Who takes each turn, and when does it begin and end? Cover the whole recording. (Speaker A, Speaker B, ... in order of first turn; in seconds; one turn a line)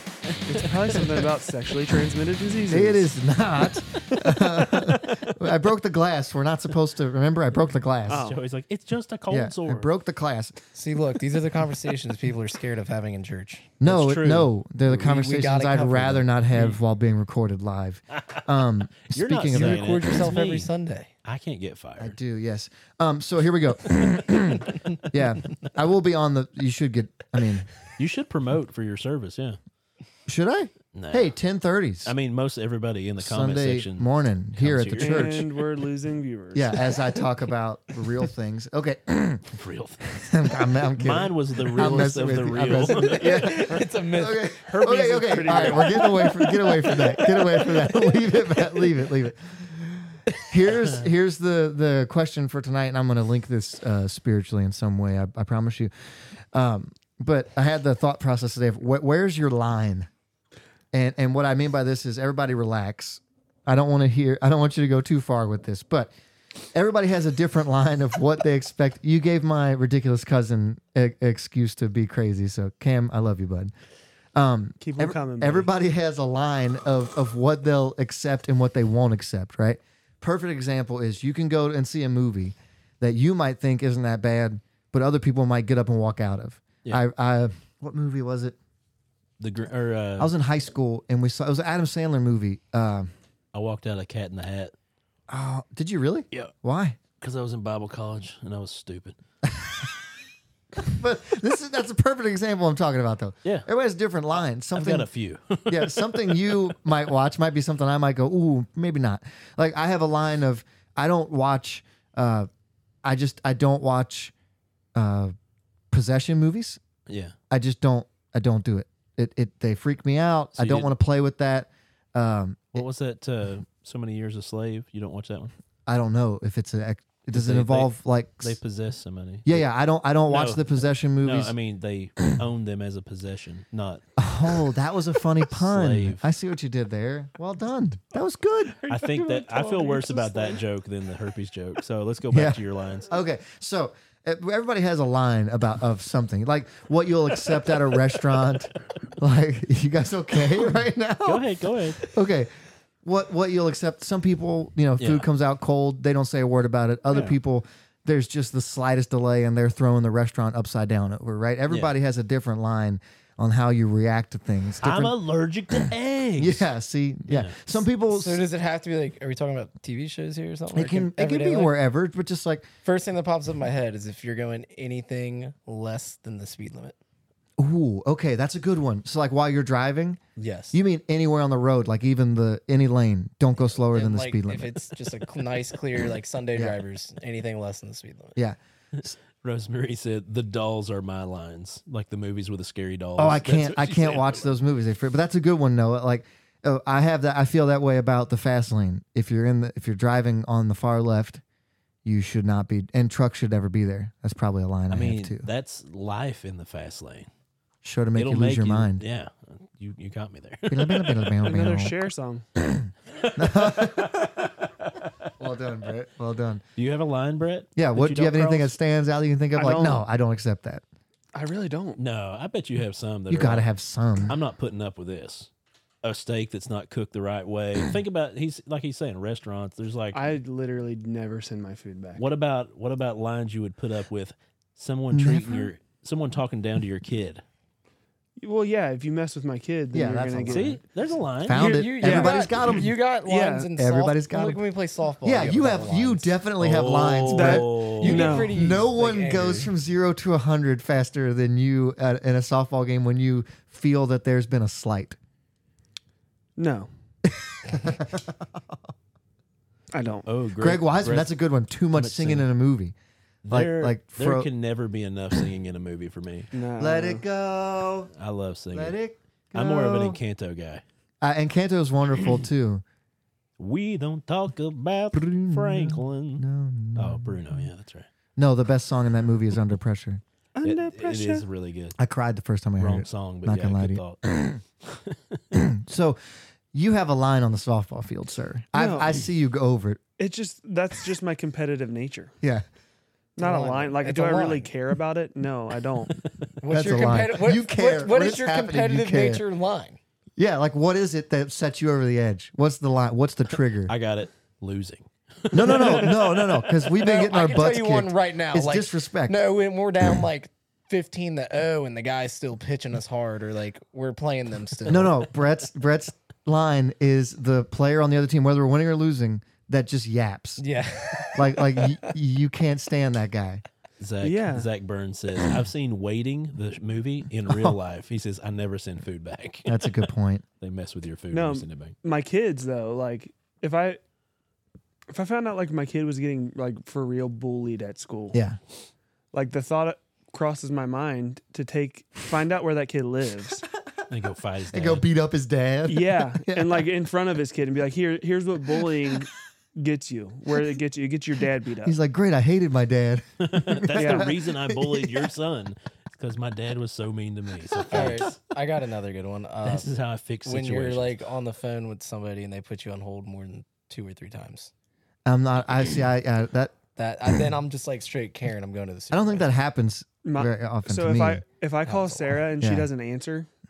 Speaker A: 0.3-1.0
Speaker B: 0.5-3.1
Speaker C: 2.7-8.3
Speaker A: 4.1-5.1
Speaker A: 8.1-9.9
Speaker B: 8.1-8.4
Speaker C: 9.3-10.6
Speaker D: 10.7-13.8
Speaker C: 13.8-19.9
Speaker A: 13.8-14.5
Speaker D: 14.9-16.3
Speaker A: 16.5-16.8
Speaker A: 18.2-20.7
Speaker D: 19.5-21.1
Speaker A: 21.2-22.2
Speaker C: 22.0-27.7
Speaker A: 28.0-29.6
Speaker C: 30.3-32.1
Speaker A: 30.9-31.3
Speaker A: 32.0-35.3
Speaker C: 33.2-35.5
Speaker B: 35.0-37.0
Speaker C: 36.5-39.5
Speaker A: 39.5-40.1
Speaker C: 40.1-60.1
Speaker A: 41.0-43.5
Speaker D: 42.9-48.2
Speaker B: 44.7-46.3
Speaker C: 60.9-66.1
Speaker C: 66.7-73.7
Speaker C: 74.3-88.6
Speaker B: 74.8-75.7
Speaker A: 89.4-90.3
Speaker C: 90.2-93.1
Speaker A: 93.5-94.7
Speaker C: 95.3-97.0
Speaker A: 97.2-99.2
Speaker C: 100.8-105.1
Speaker A: 104.7-106.6
Speaker C: 105.7-112.5
Speaker C: 113.0-114.3
Speaker C: 115.0-115.3
Speaker C: 115.9-116.8
Speaker A: 117.1-117.3
Speaker C: 117.5-122.8
Speaker A: 120.5-120.9
Speaker A: 122.7-125.5
Speaker C: 125.9-128.6
Speaker A: 127.3-129.7
Speaker C: 129.5-131.5
Speaker A: 130.3-130.7
Speaker A: 131.2-134.1
Speaker C: 134.2-138.8
Speaker A: 135.5-136.3
Speaker A: 138.9-143.1
Speaker B: 138.9-140.3
Speaker C: 142.3-151.4
Speaker A: 151.2-152.0
Speaker C: 152.0-152.5
Speaker C: 153.0-165.2
Speaker A: 155.0-155.3
Speaker A: 157.1-157.4
Speaker A: 161.7-161.9
Speaker A: 164.8-166.7
Speaker C: 166.4-168.5
Speaker A: 167.3-167.7
Speaker D: 168.1-171.8
Speaker C: 170.7-172.7
Speaker D: 172.8-177.0
Speaker C: 177.6-180.2
Speaker D: 180.4-180.8
Speaker C: 180.7-184.8
Speaker D: 183.9-188.4
Speaker C: 188.4-189.1
Speaker A: 189.0-194.5
Speaker C: 193.2-201.4
Speaker C: 202.1-205.5
Speaker A: 204.9-207.3
Speaker C: 207.8-209.0
Speaker A: 208.2-211.4
Speaker C: 210.7-211.9
Speaker B: 211.4-212.4
Speaker C: 212.6-214.3
Speaker A: 213.2-215.1
Speaker C: 215.4-216.6
Speaker A: 216.8-218.8
Speaker C: 217.8-220.8
Speaker B: 219.6-220.0
Speaker B: 221.3-222.0
Speaker A: 222.0-223.7
Speaker C: 223.3-224.4
Speaker A: 224.3-225.5
Speaker A: 226.0-230.2
Speaker B: 230.1-232.2
Speaker A: 232.2-237.4
Speaker C: 235.1-235.7
Speaker B: 238.4-240.8
Speaker C: 239.9-240.8
Speaker A: 240.5-241.8
Speaker C: 241.4-243.0
Speaker D: 241.5-246.3
Speaker B: 241.9-242.7
Speaker B: 243.2-243.7
Speaker C: 243.8-244.6
Speaker C: 245.2-255.2
Speaker A: 246.6-248.5
Speaker B: 247.3-248.8
Speaker D: 248.0-249.7
Speaker B: 256.6-256.9
Speaker C: 257.3-258.8
Speaker B: 259.9-260.3
Speaker A: 260.2-261.3
Speaker C: 260.6-262.9
Speaker A: 261.9-262.5
Speaker A: 263.4-266.5
Speaker C: 263.5-264.5
Speaker B: 266.5-267.2
Speaker C: 266.8-268.1
Speaker A: 268.1-269.0
Speaker C: 268.7-270.2
Speaker A: 269.5-270.8
Speaker C: 271.2-272.8
Speaker A: 273.6-276.4
Speaker C: 275.1-277.7
Speaker A: 277.0-278.1
Speaker C: 278.4-280.2
Speaker B: 280.6-281.5
Speaker A: 280.6-282.0
Speaker C: 282.0-284.6
Speaker A: 282.8-284.2
Speaker A: 284.8-285.4
Speaker C: 285.5-286.2
Speaker C: 286.7-290.0
Speaker B: 288.7-289.2
Speaker B: 290.2-292.3
Speaker B: 293.4-296.2
Speaker D: 293.4-294.7
Speaker D: 296.6-300.0
Speaker C: 296.7-299.4
Speaker C: 300.4-303.9
Speaker A: 303.9-306.6
Speaker C: 305.5-309.4
Speaker D: 306.9-315.2
Speaker C: 314.9-320.6
Speaker D: 320.6-322.1
Speaker C: 321.3-323.6
Speaker A: 324.0-329.9
Speaker B: 324.2-324.7
Speaker C: 327.5-327.8
Speaker C: 329.7-330.4
Speaker A: 330.6-331.9
Speaker B: 331.3-334.0
Speaker B: 335.1-338.4
Speaker C: 338.3-338.6
Speaker B: 339.3-343.7
Speaker A: 344.1-345.1
Speaker C: 344.7-346.9
Speaker B: 345.9-352.0
Speaker C: 351.8-355.3
Speaker A: 353.4-358.4
Speaker B: 354.0-354.3
Speaker D: 357.9-359.9
Speaker A: 359.6-361.2
Speaker D: 360.4-364.7
Speaker C: 365.3-366.8
Speaker D: 367.0-369.5
Speaker C: 369.1-371.4
Speaker B: 370.2-373.5
Speaker D: 371.9-372.4
Speaker C: 372.6-372.9